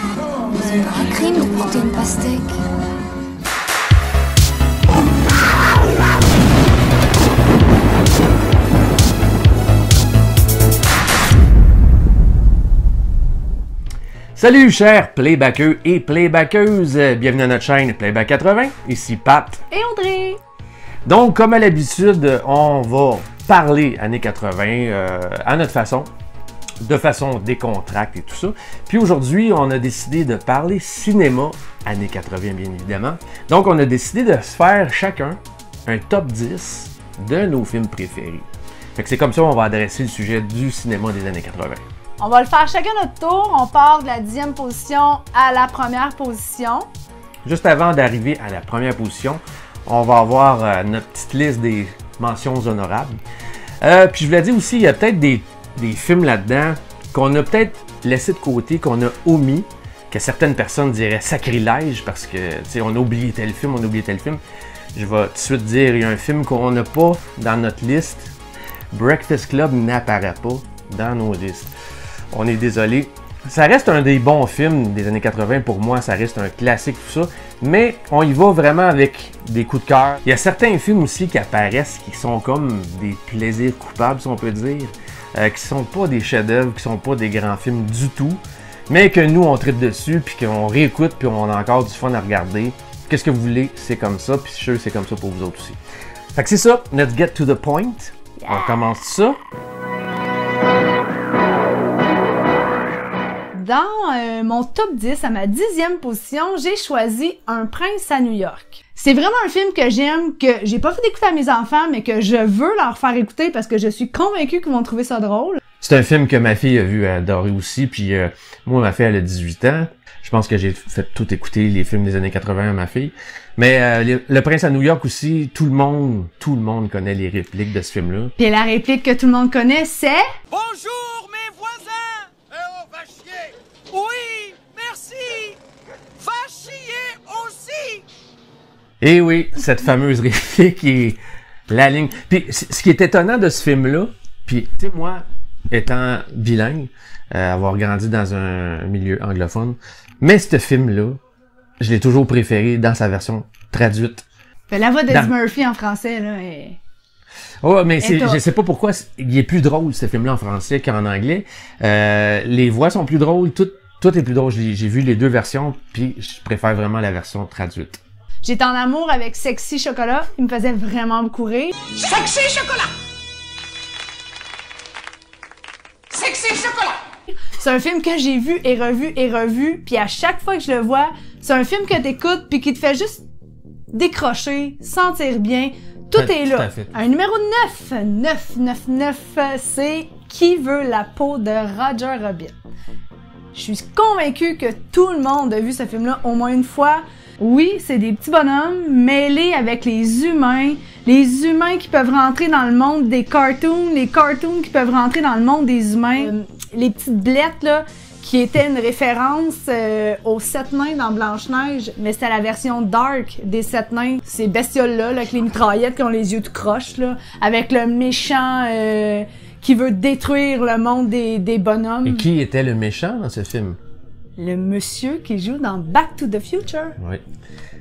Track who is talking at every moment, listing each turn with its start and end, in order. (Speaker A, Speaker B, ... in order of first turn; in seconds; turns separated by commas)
Speaker A: 0.5-2.6, Speaker B: 14.3-19.6, Speaker C: 19.7-20.4, Speaker B: 21.1-26.1, Speaker B: 26.8-41.8, Speaker C: 42.2-46.9, Speaker B: 47.5-53.2, Speaker B: 53.8-64.4, Speaker B: 65.0-68.3, Speaker B: 68.9-71.7, Speaker B: 72.3-95.8, Speaker B: 96.3-99.4, Speaker C: 103.5-115.6, Speaker B: 115.8-128.3, Speaker C: 128.4-130.3, Speaker D: 130.7-132.0, Speaker D: 132.6-135.4, Speaker D: 136.2-138.0, Speaker B: 139.0-151.2, Speaker B: 151.8-154.3, Speaker C: 154.7-156.8, Speaker B: 157.6-168.0, Speaker C: 158.0-158.4, Speaker C: 168.4-172.9, Speaker C: 176.1-183.2, Speaker C: 183.9-192.6, Speaker B: 186.2-186.9, Speaker C: 193.5-222.2, Speaker B: 222.1-223.8, Speaker C: 224.4-227.0, Speaker B: 227.0-227.2